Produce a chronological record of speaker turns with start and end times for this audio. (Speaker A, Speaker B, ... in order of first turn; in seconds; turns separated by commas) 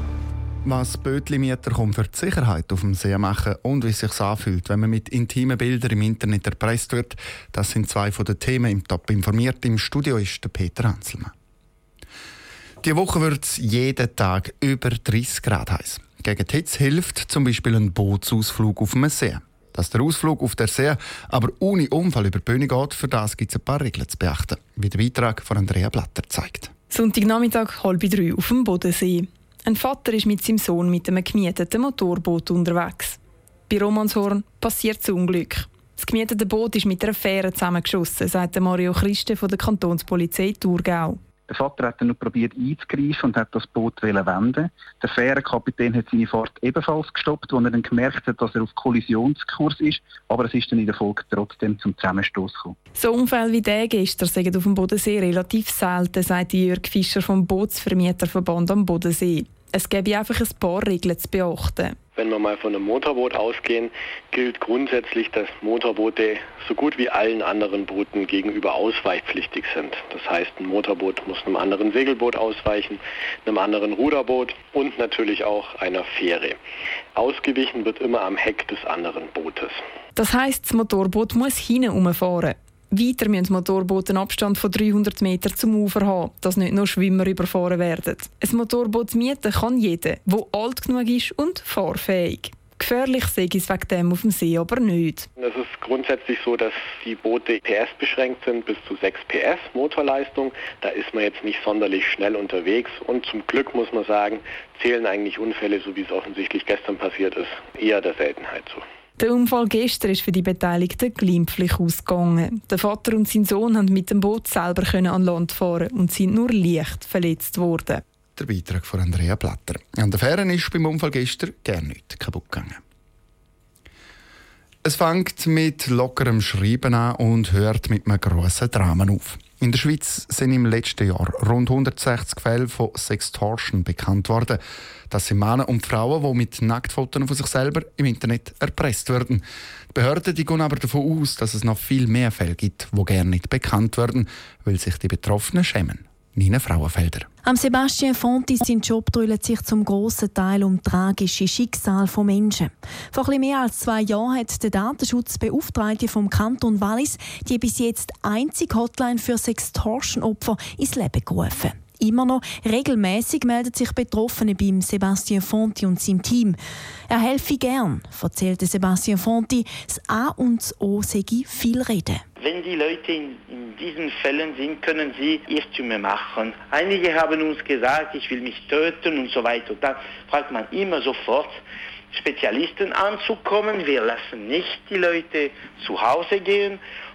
Speaker A: 0.6-11.3, Speaker A: 12.8-26.7, Speaker B: 26.9-33.2, Speaker B: 33.7-41.2, Speaker C: 41.5-52.7, Speaker B: 53.0-62.0, Speaker D: 62.1-76.6, Speaker D: 77.1-79.8, Speaker B: 80.1-95.3, Speaker D: 95.4-108.8, Speaker B: 109.2-118.0, Speaker A: 118.3-122.8, Speaker A: 124.8-147.3, Speaker E: 147.4-166.6, Speaker E: 167.1-172.2, Speaker F: 172.4-186.8